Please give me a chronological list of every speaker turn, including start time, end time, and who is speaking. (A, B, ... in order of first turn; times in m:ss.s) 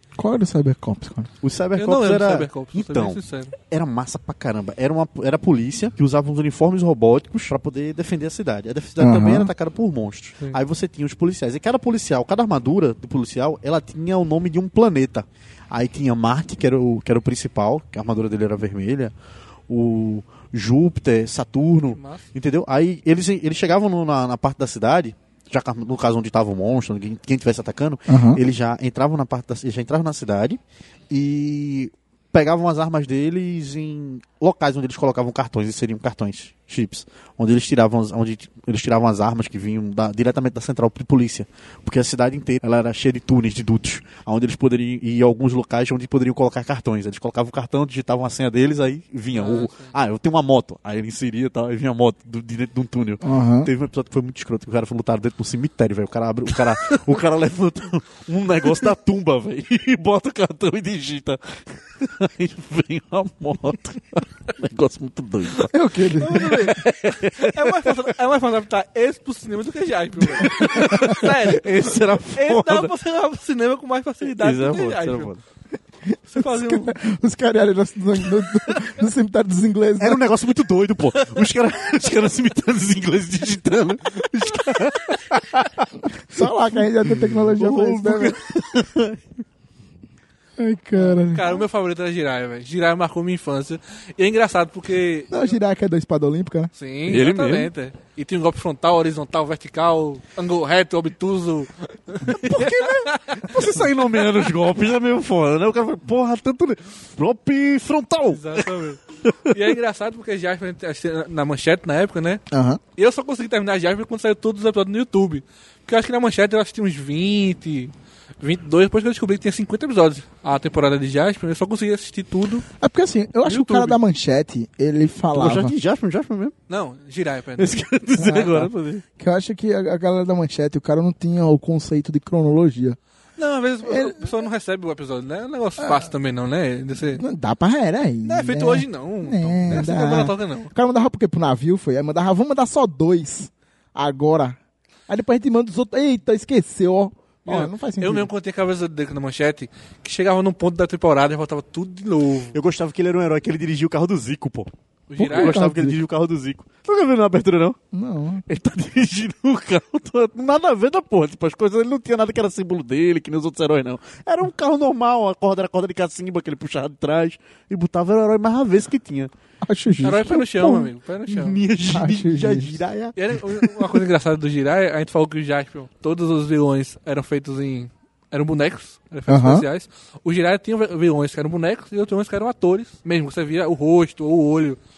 0:00.2-0:01.3 A
0:01.4-0:19.1 B
0:01.8-0:03.5 C
0:09.0-0:09.5 A
0:19.7-1:05.7 B
0:22.0-0:22.3 C
0:28.1-0:28.4 A
0:49.3-0:49.9 C
0:53.2-0:53.7 A
1:05.7-1:06.7 A
1:06.2-1:15.3 C
1:06.8-1:08.0 B
1:10.4-1:12.9 B
1:14.4-1:15.4 B
1:16.1-1:20.2 A
1:16.3-1:17.0 C
1:20.0-1:25.9 B
1:26.3-1:28.4 A
1:27.0-1:29.2 B
1:30.6-1:31.6 A
1:31.0-1:35.4 C
1:35.3-1:36.7 A
1:36.8-1:43.6 C
1:37.1-1:37.7 B
1:42.2-1:49.6 B
1:48.3-1:52.4 C
1:52.5-1:52.8 A
1:53.0-2:02.6 C
2:02.8-2:05.7 A
2:03.4-2:04.0 C
2:05.3-2:06.5 B
2:06.7-2:07.8 C
2:07.6-2:09.0 B
2:08.2-2:13.0 A
2:13.4-2:17.2 C
2:13.8-2:14.3 A
2:15.8-2:16.0 A
2:17.1-2:28.3 A
2:18.2-2:20.7 C
2:27.4-2:32.6 C
2:32.5-2:34.7 B
2:35.1-2:35.6 C
2:35.2-2:36.0 A
2:35.2-2:37.8 B
2:37.9-2:38.4 A
2:38.5-2:49.3 B
2:49.6-2:50.9 A
2:50.0-2:51.6 C
2:51.3-2:53.7 B
2:51.9-2:52.8 A
2:53.2-3:04.8 C
2:59.3-2:59.6 A